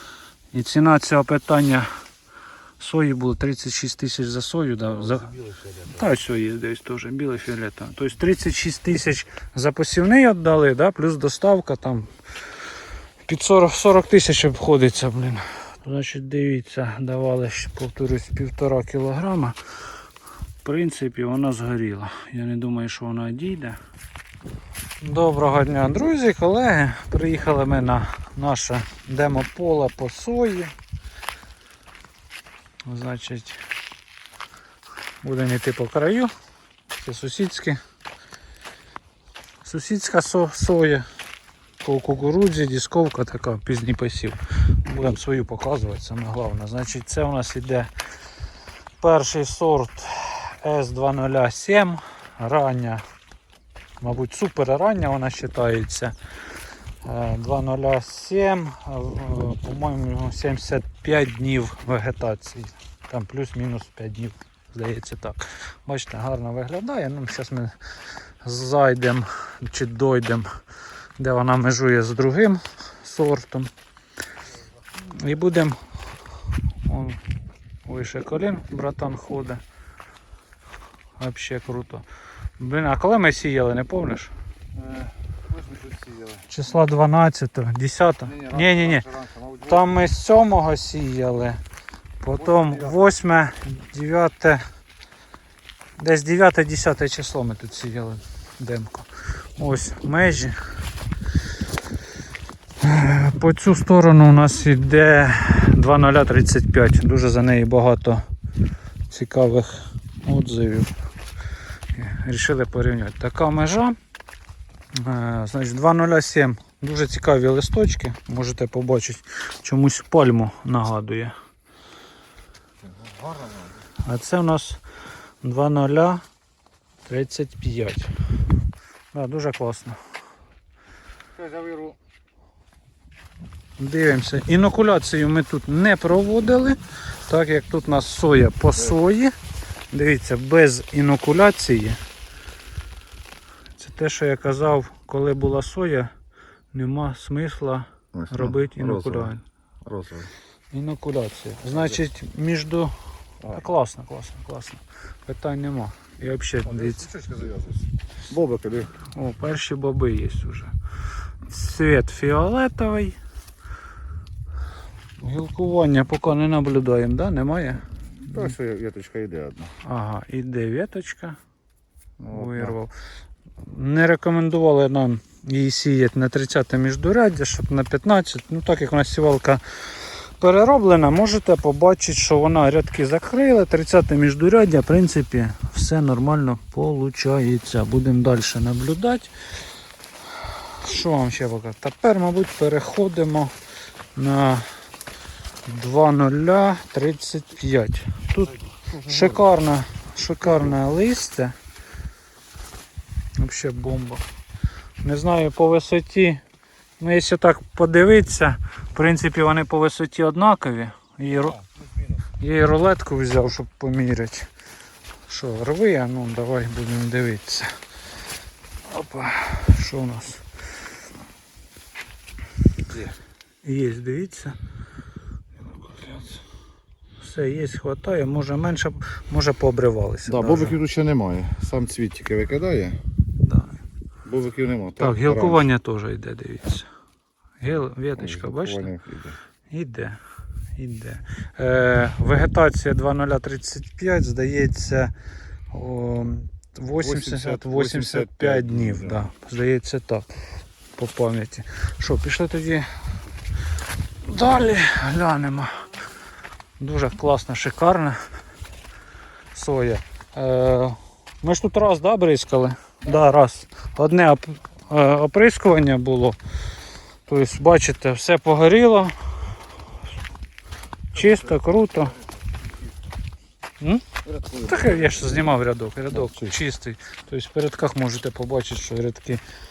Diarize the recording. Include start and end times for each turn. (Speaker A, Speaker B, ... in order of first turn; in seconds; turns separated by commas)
Speaker A: 0.5-1.9, Speaker A: 2.8-12.1, Speaker B: 5.0-5.9, Speaker A: 13.2-19.6, Speaker A: 20.6-23.8, Speaker A: 25.0-30.7, Speaker A: 32.9-33.6, Speaker A: 35.2-36.3, Speaker A: 37.0-37.8, Speaker A: 39.6-41.0, Speaker A: 41.8-47.9, Speaker A: 49.0-53.0, Speaker A: 54.0-56.1, Speaker A: 57.0-67.8, Speaker A: 68.4-70.5, Speaker A: 71.2-73.7, Speaker A: 75.0-75.8, Speaker A: 76.8-77.2, Speaker A: 77.8-79.6, Speaker A: 81.2-82.0, Speaker A: 82.6-84.3, Speaker B: 84.8-86.4, Speaker A: 86.5-91.6, Speaker B: 88.3-89.8, Speaker A: 92.2-94.6, Speaker B: 92.5-93.0, Speaker A: 96.0-100.6, Speaker A: 102.8-108.2, Speaker A: 109.1-110.9, Speaker A: 111.9-114.0, Speaker A: 114.9-121.3, Speaker A: 124.0-124.8, Speaker A: 125.4-126.2, Speaker A: 127.1-128.1, Speaker A: 129.1-130.0, Speaker B: 131.4-131.9, Speaker A: 133.8-139.3, Speaker A: 139.9-142.0, Speaker A: 143.8-146.1, Speaker A: 146.7-149.4, Speaker B: 148.1-149.3, Speaker B: 149.8-150.3, Speaker A: 150.7-152.9, Speaker B: 151.8-152.0, Speaker A: 153.5-157.2, Speaker B: 156.7-159.0, Speaker A: 159.0-160.7, Speaker A: 161.4-163.2, Speaker A: 165.2-168.6, Speaker B: 168.3-169.7, Speaker A: 169.8-171.4, Speaker B: 172.2-172.8, Speaker A: 172.3-172.9, Speaker A: 173.6-189.3, Speaker A: 190.4-193.5, Speaker A: 194.1-194.7, Speaker A: 195.6-201.5, Speaker A: 203.3-204.2, Speaker A: 205.0-206.4, Speaker A: 207.0-211.6, Speaker A: 212.4-214.5, Speaker A: 215.3-217.8, Speaker A: 218.8-220.4, Speaker A: 223.6-224.6, Speaker A: 226.0-226.3, Speaker A: 227.2-230.8, Speaker B: 230.2-233.0, Speaker A: 233.4-233.8, Speaker B: 234.2-235.7, Speaker A: 235.0-236.9, Speaker A: 237.6-239.0, Speaker B: 238.2-239.4, Speaker A: 239.7-240.2, Speaker A: 240.8-245.1, Speaker A: 245.7-250.3, Speaker B: 247.0-249.2, Speaker A: 251.0-252.8, Speaker A: 254.2-255.9, Speaker A: 256.8-258.2, Speaker A: 259.5-266.4, Speaker A: 267.3-269.1, Speaker A: 271.1-272.2, Speaker A: 273.8-279.4, Speaker B: 274.2-275.3